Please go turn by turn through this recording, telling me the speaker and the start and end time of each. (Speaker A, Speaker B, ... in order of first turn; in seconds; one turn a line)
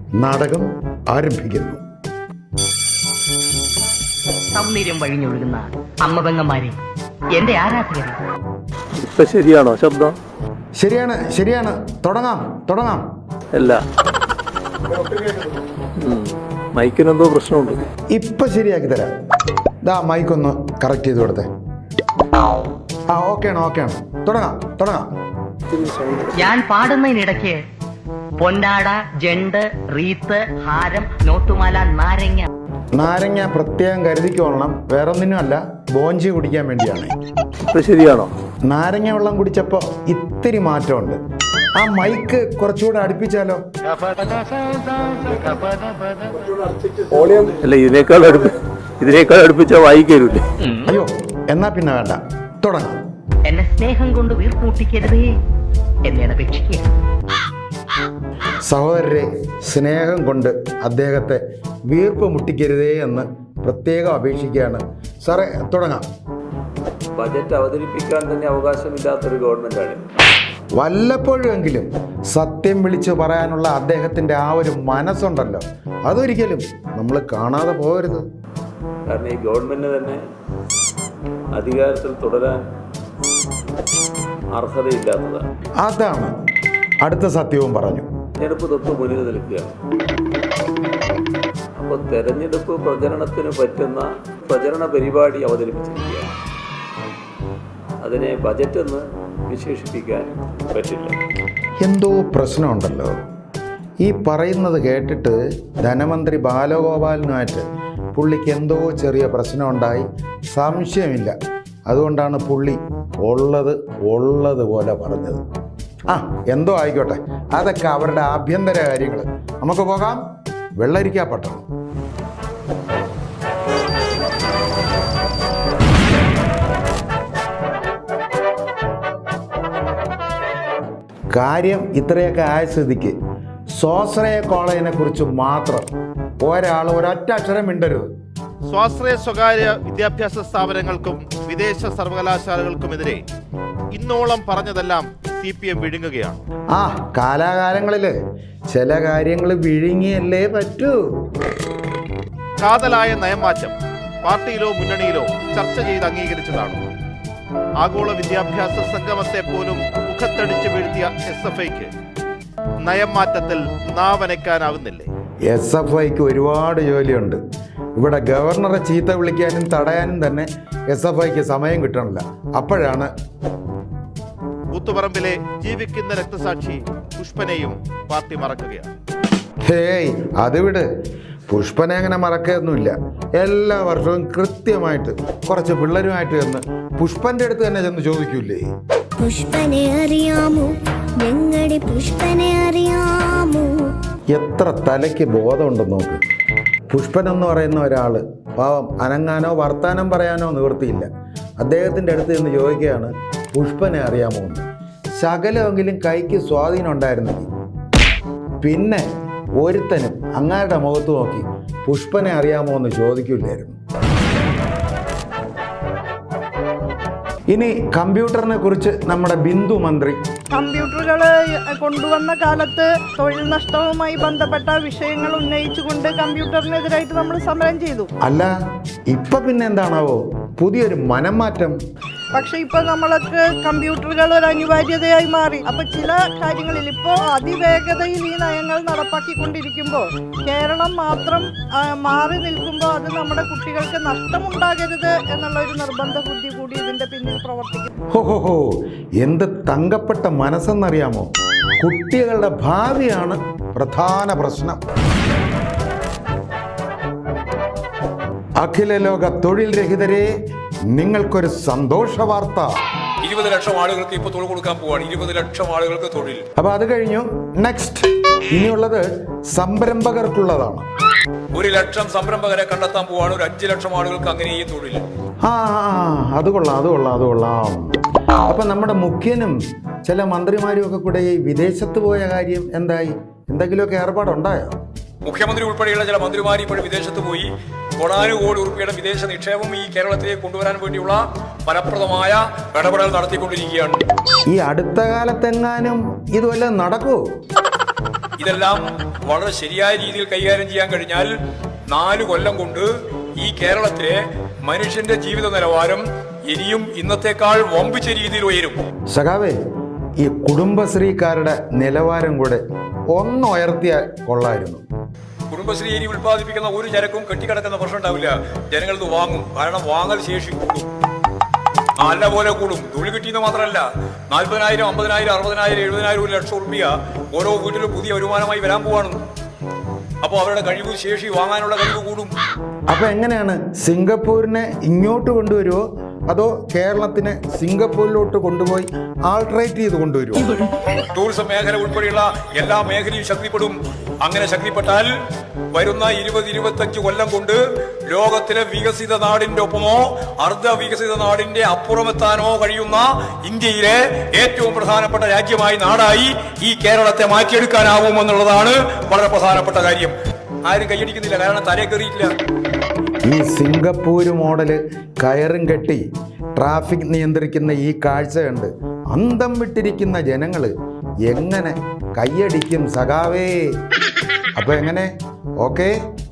Speaker A: 0.2-1.8
Speaker B: 4.5-6.8
Speaker B: 7.3-8.2
Speaker C: 9.0-10.2
Speaker A: 10.8-13.0
Speaker C: 13.5-13.8
Speaker C: 16.0-17.8
Speaker A: 18.1-19.1
Speaker A: 19.8-21.5
Speaker A: 23.1-25.1
Speaker B: 26.3-27.6
Speaker B: 28.4-32.5
Speaker A: 32.9-37.1
Speaker C: 37.7-38.3
Speaker A: 38.7-41.2
Speaker A: 41.7-43.6
Speaker B: 45.1-45.7
Speaker C: 47.2-50.4
Speaker A: 50.8-52.9
Speaker B: 53.5-55.3
Speaker B: 56.0-56.9
Speaker A: 58.6-66.0
Speaker C: 67.1-70.0
Speaker A: 70.8-78.2
Speaker C: 79.0-80.2
Speaker C: 81.5-82.7
Speaker C: 84.5-85.4
Speaker A: 85.8-86.3
Speaker A: 87.0-88.0
Speaker C: 88.4-89.7
Speaker C: 91.8-96.3
Speaker C: 98.0-101.2
Speaker A: 101.8-103.1
Speaker A: 104.0-111.3
Speaker A: 111.9-115.4
Speaker A: 116.1-120.2
Speaker A: 120.8-121.6
Speaker A: 131.3-133.2
Speaker A: 133.7-135.9
Speaker A: 136.4-138.1
Speaker D: 138.6-143.2
Speaker D: 143.9-146.4
Speaker A: 146.7-148.1
Speaker A: 148.7-151.0
Speaker D: 152.6-156.8
Speaker D: 157.8-161.9
Speaker D: 162.8-165.1
Speaker A: 165.5-167.4
Speaker A: 167.9-173.1
Speaker D: 174.7-178.9
Speaker A: 179.6-180.8
Speaker A: 181.5-188.6
Speaker E: 189.2-193.9
Speaker A: 194.3-196.2
Speaker A: 196.9-201.1
Speaker A: 201.6-204.6
Speaker A: 205.2-207.5
Speaker A: 208.6-209.0
Speaker A: 209.6-213.8
Speaker A: 217.5-220.2
Speaker F: 220.5-228.1
Speaker A: 228.2-228.5
Speaker A: 229.1-231.7
Speaker F: 232.3-247.9
Speaker A: 248.1-254.8
Speaker A: 258.6-260.3
Speaker A: 260.9-262.7
Speaker G: 263.2-266.4
Speaker A: 266.6-270.8
Speaker G: 271.5-275.0
Speaker A: 275.4-284.8
Speaker G: 285.2-294.0
Speaker A: 294.5-297.2
Speaker G: 298.4-301.3
Speaker G: 301.9-302.9
Speaker G: 303.4-308.8
Speaker A: 309.1-309.6
Speaker A: 310.2-312.6
Speaker A: 313.1-314.8
Speaker G: 315.5-320.9
Speaker G: 322.0-329.2
Speaker G: 330.2-332.3
Speaker A: 332.9-340.6
Speaker G: 340.9-345.1
Speaker G: 345.7-360.1
Speaker G: 360.6-362.3
Speaker A: 363.2-366.0
Speaker A: 366.6-370.7
Speaker A: 371.2-373.7
Speaker A: 374.5-375.1
Speaker A: 375.6-375.9